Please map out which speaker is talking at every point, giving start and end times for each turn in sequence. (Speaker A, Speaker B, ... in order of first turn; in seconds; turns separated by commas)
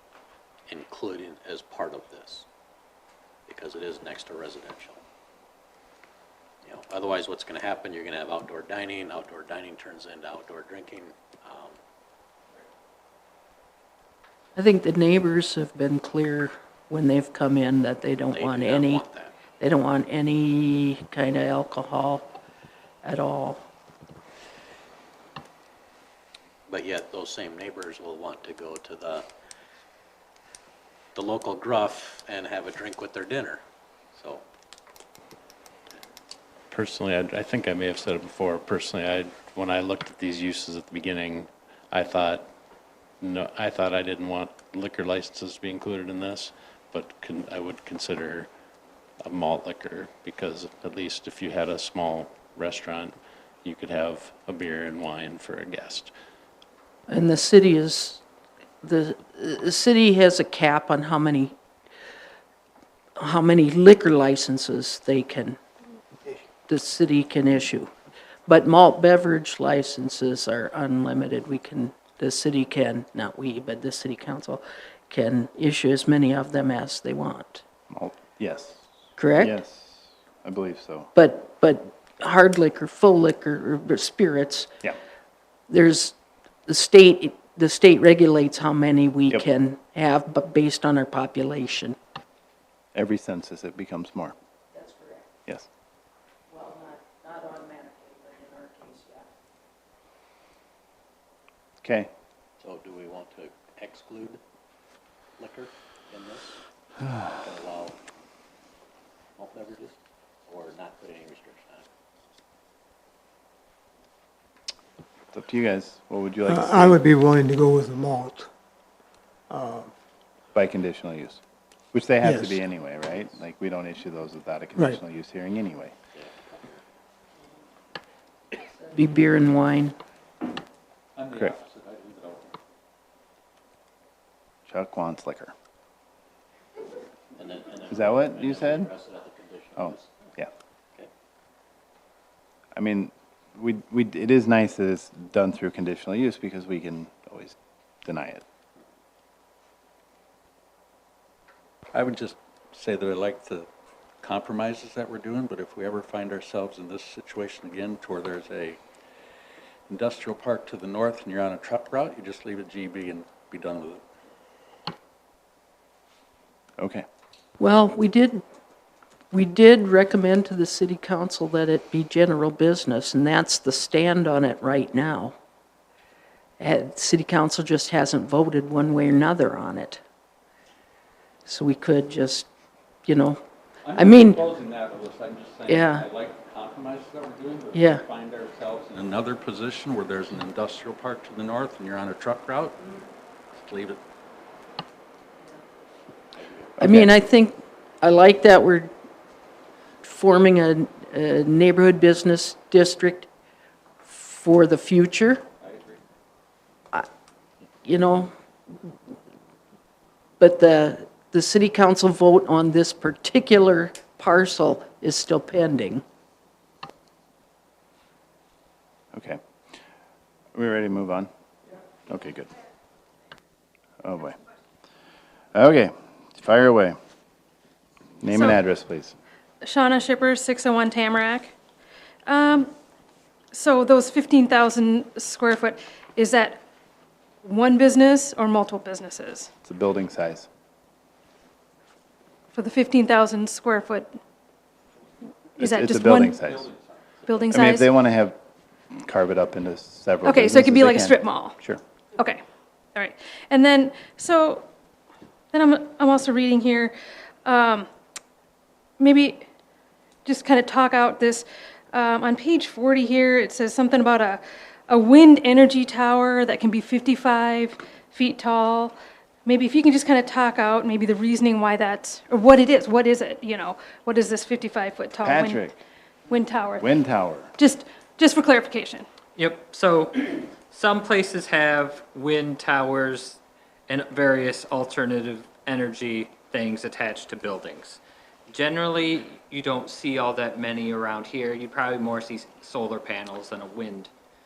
Speaker A: 0.7-2.5, Speaker A: 3.5-5.0, Speaker A: 6.6-11.8, Speaker B: 14.6-19.0, Speaker A: 18.3-19.4, Speaker B: 19.6-22.3, Speaker B: 23.0-23.6, Speaker A: 26.7-29.3, Speaker A: 31.1-33.6, Speaker A: 34.1-34.4, Speaker C: 36.7-42.5, Speaker C: 43.2-48.5, Speaker C: 49.2-56.1, Speaker B: 57.1-58.2, Speaker B: 58.8-61.5, Speaker B: 63.2-65.6, Speaker B: 66.6-67.9, Speaker B: 68.5-77.6, Speaker D: 77.9-81.1, Speaker B: 79.2-79.6, Speaker B: 81.1-84.7, Speaker B: 85.7-92.0, Speaker D: 92.9-94.3, Speaker B: 94.7-95.3, Speaker B: 96.5-99.3, Speaker D: 101.8-102.1, Speaker A: 102.6-104.4, Speaker A: 105.4-106.6, Speaker A: 107.3-108.0, Speaker A: 109.4-110.0, Speaker A: 110.5-111.8, Speaker D: 115.3-117.0, Speaker E: 116.5-118.5, Speaker E: 119.5-119.9, Speaker D: 120.5-121.4, Speaker D: 121.9-125.9, Speaker E: 122.2-122.5, Speaker A: 126.1-126.8, Speaker B: 128.8-129.9, Speaker F: 131.2-131.8, Speaker A: 131.9-132.2, Speaker D: 134.7-135.5, Speaker A: 137.3-140.3, Speaker D: 137.9-138.9, Speaker D: 139.8-140.5, Speaker D: 142.7-148.4, Speaker F: 151.9-153.6, Speaker F: 154.2-158.8, Speaker F: 159.9-164.0, Speaker D: 166.8-167.1, Speaker B: 167.6-168.4, Speaker B: 169.3-175.3, Speaker B: 176.6-180.0, Speaker B: 181.5-182.5, Speaker B: 183.1-183.4, Speaker F: 183.8-192.8, Speaker B: 183.9-184.4, Speaker B: 185.7-186.1, Speaker B: 187.7-188.0, Speaker F: 193.6-194.0, Speaker A: 196.3-196.8, Speaker B: 196.8-198.9, Speaker D: 196.8-197.1, Speaker B: 200.0-203.3, Speaker B: 204.0-205.4, Speaker F: 205.6-205.9, Speaker B: 207.8-208.3, Speaker B: 210.4-216.0, Speaker D: 219.1-219.4, Speaker D: 220.5-221.3, Speaker D: 222.1-222.5, Speaker D: 224.0-224.4, Speaker D: 225.5-226.9, Speaker D: 228.2-229.1, Speaker G: 228.3-228.6, Speaker G: 229.6-231.5, Speaker G: 232.2-232.7, Speaker G: 233.5-236.6, Speaker G: 237.4-239.5, Speaker D: 239.6-240.5, Speaker G: 242.5-244.1, Speaker D: 245.6-246.7, Speaker G: 245.6-246.4, Speaker G: 247.2-247.9, Speaker D: 247.5-248.4, Speaker D: 249.0-251.8, Speaker G: 250.2-251.6, Speaker G: 252.9-254.6, Speaker G: 255.5-256.9, Speaker G: 257.4-257.9, Speaker G: 259.0-259.4, Speaker G: 260.2-275.6, Speaker D: 275.2-275.8, Speaker G: 276.3-276.9, Speaker D: 276.8-277.5, Speaker G: 277.6-279.1, Speaker H: 279.4-294.1